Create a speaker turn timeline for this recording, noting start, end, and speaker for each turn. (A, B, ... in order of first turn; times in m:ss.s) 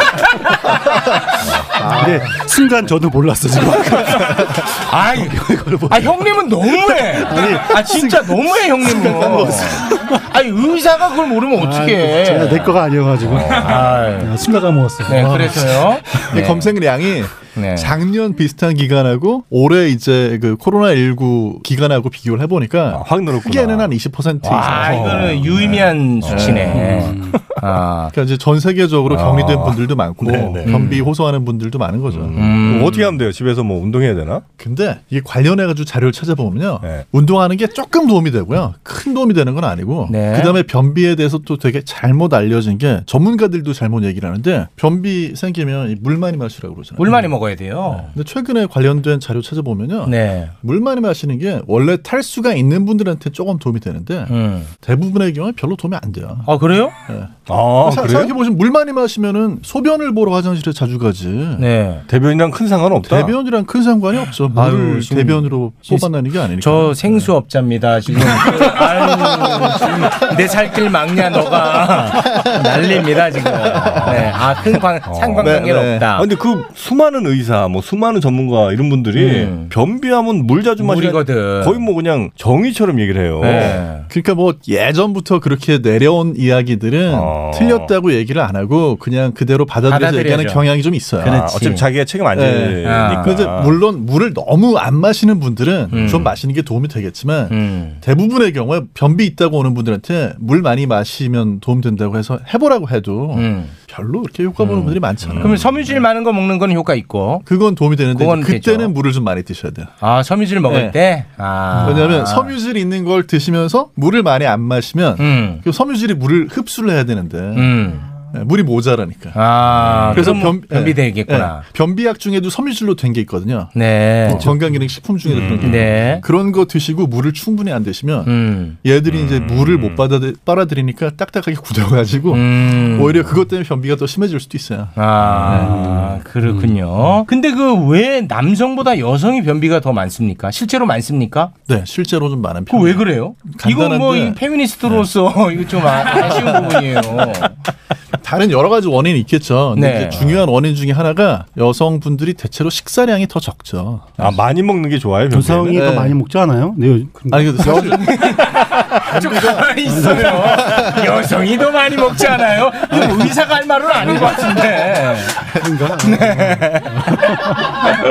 0:01.4-0:01.8 A
0:01.8-0:06.2 B
0:04.6-0:12.8 C
0:06.9-0:10.2 B
0:09.0-0:09.7 D
0:11.5-0:15.7 B
0:13.2-0:14.0 A
0:13.6-0:14.3 C
0:15.0-0:16.7 C
0:15.1-0:27.1 D
0:17.5-0:17.9 C
0:22.9-0:23.9 A
0:24.4-0:28.1 C
0:24.6-0:26.9 A
0:26.8-0:27.4 B
0:28.1-0:32.3 D
0:29.1-0:30.7 A
0:30.6-0:31.0 C
0:32.1-0:34.4 A
0:32.3-0:33.1 C
0:34.6-0:47.3 D
0:40.1-0:40.6 C
0:47.0-0:48.1 C
0:47.9-0:56.5 D
0:50.0-0:50.5 C
0:54.3-0:54.7 C
0:56.4-0:56.9 C
0:57.1-1:01.6 D
0:57.5-0:58.3 A
1:01.6-1:02.0 C
1:02.1-1:03.3 A
1:03.0-1:07.3 D
1:04.5-1:06.1 C
1:06.6-1:16.2 C
1:08.4-1:10.2 D
1:12.2-1:14.4 D
1:15.1-1:23.8 A
1:15.4-1:16.0 D
1:19.2-1:19.7 C
1:20.8-1:21.8 C
1:23.4-1:24.1 C
1:24.1-1:31.7 D
1:27.1-1:27.9 A
1:29.8-1:30.6 C
1:31.2-1:33.8 A
1:31.2-1:31.8 C
1:32.3-1:45.7 D
1:32.8-1:33.4 C
1:35.9-1:36.3 A
1:35.9-1:36.3 C
1:37.5-1:38.0 C
1:43.3-1:43.7 C
1:44.6-1:47.4 C
1:45.2-1:45.6 A
1:47.4-1:49.9 D
1:48.1-1:48.9 C
1:50.0-1:52.5 C
1:50.6-1:51.0 D
1:51.7-1:52.1 B
1:51.8-1:59.4 D
1:55.2-1:55.6 C
1:57.5-1:58.1 C
1:59.3-2:01.6 C
1:59.8-2:00.4 A
2:00.1-2:08.3 D
2:03.7-2:04.5 C
2:04.3-2:04.9 B
2:05.3-2:05.8 A
2:05.4-2:06.2 C
2:08.2-2:08.8 C
2:08.8-2:16.2 D
2:09.0-2:10.0 A
2:12.3-2:13.3 C
2:15.0-2:21.5 C
2:15.2-2:15.8 A
2:21.7-2:24.4 D
2:22.7-2:27.6 C
2:26.1-2:26.8 D
2:28.2-2:34.2 D
2:29.7-2:30.3 C
2:34.2-2:35.8 A
2:35.3-2:38.0 B
2:35.7-2:36.2 D
2:37.3-2:39.7 D
2:37.9-2:47.2 C
2:39.8-2:40.9 B
2:40.3-2:41.0 D
2:42.9-2:43.3 B
2:44.0-2:44.7 B
2:45.4-2:47.8 B